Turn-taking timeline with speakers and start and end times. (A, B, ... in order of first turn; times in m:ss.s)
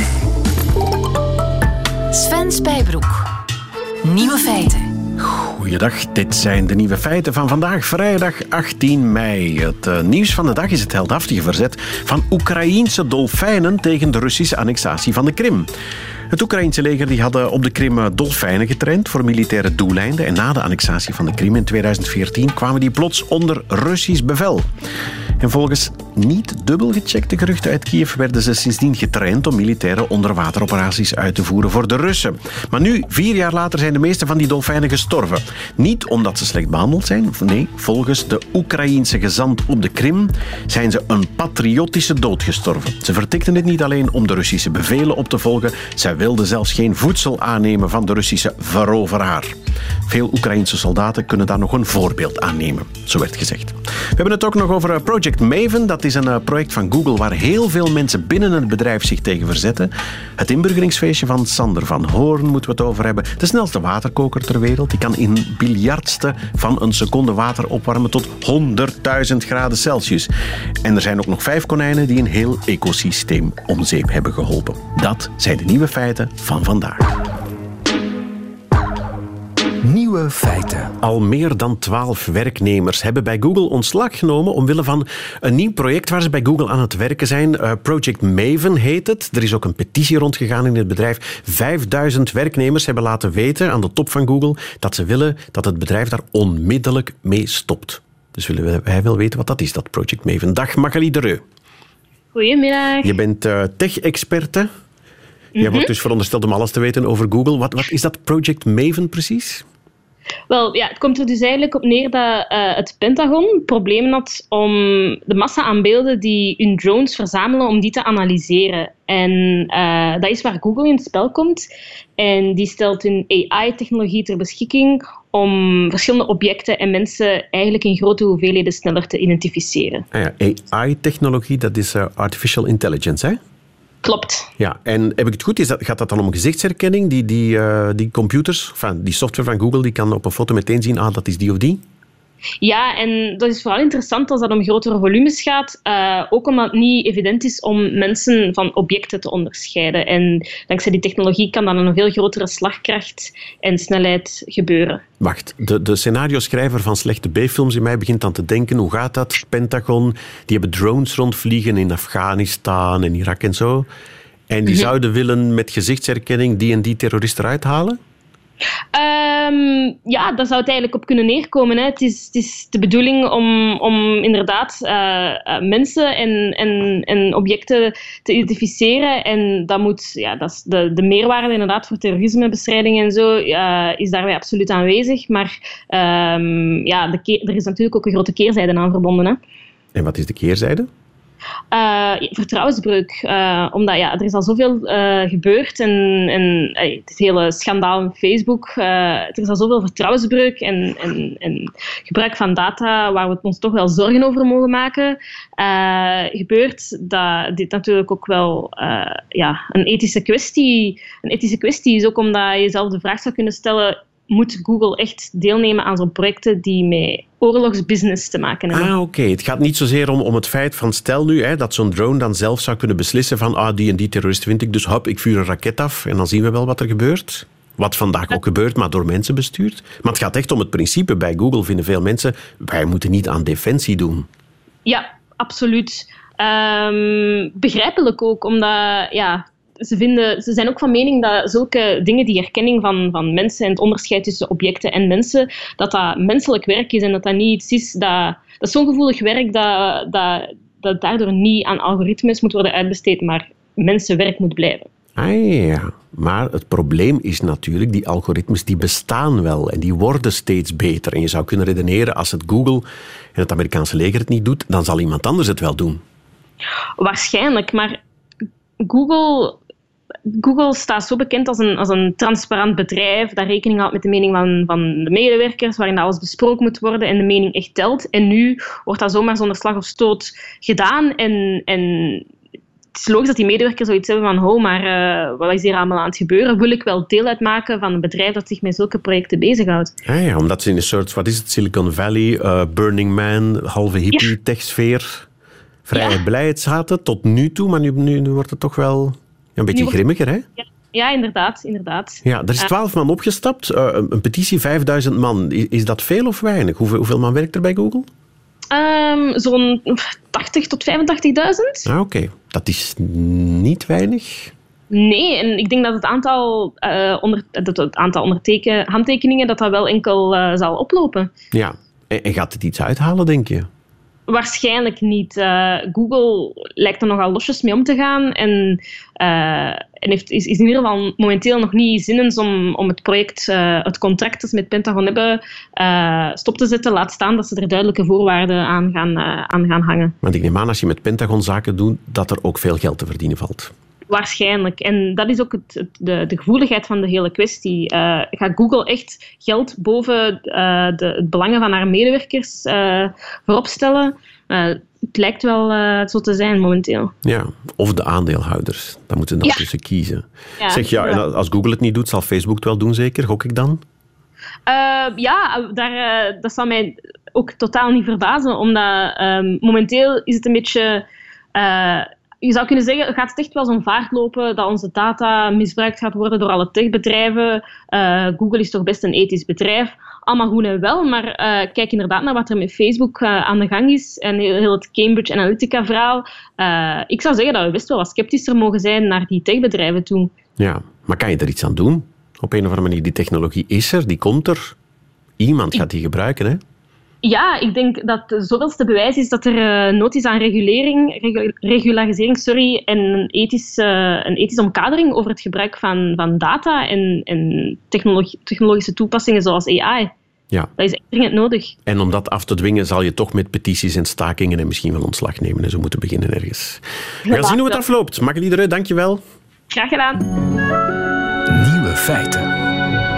0:02.1-0:03.3 A
0:04.0-0:04.9 A
0:05.2-0:15.7 B
0:16.3-0:24.7 B
0:25.4-0:49.5 B
0:50.0-1:10.3 B
1:10.8-1:17.2 B
1:19.8-1:20.9 C
1:21.0-1:41.4 B
1:42.3-1:43.1 D
1:43.0-1:44.7 B
1:45.6-1:45.9 D
1:45.6-1:49.6 B
1:50.5-2:01.6 D
2:02.2-2:10.0 D
2:10.1-2:13.4 B
2:14.0-2:14.5 D
2:14.6-2:21.8 B
2:22.6-2:35.0 D
2:35.2-2:43.9 B
2:44.5-2:48.0 B
2:48.9-3:09.4 D
3:09.9-3:10.9 B
3:11.7-3:38.9 D
3:38.7-3:54.3 B
3:54.8-4:14.9 D
4:15.2-4:26.0 B
4:27.0-4:28.0 D
4:28.8-4:29.6 D
4:30.3-4:42.3 D
4:42.9-4:49.9 D
4:50.0-4:55.2 B
4:55.8-5:00.4 B
4:59.7-5:00.0 D
5:00.6-5:02.7 D
5:02.2-5:08.1 B
5:08.7-5:11.9 D
5:11.8-5:14.5 B
5:14.9-5:21.3 D
5:21.5-5:23.7 B
5:24.3-5:40.1 D
5:40.2-5:43.7 B
5:44.1-5:57.1 D
5:57.2-6:03.8 B
6:00.6-6:01.2 D
6:04.7-6:30.3 D
6:30.6-6:34.7 B
6:35.4-6:36.6 B
6:37.2-6:50.1 D
6:50.8-6:51.7 D
6:51.8-6:59.2 B
6:57.3-6:57.8 D
6:59.7-7:00.2 D
7:01.6-7:02.4 C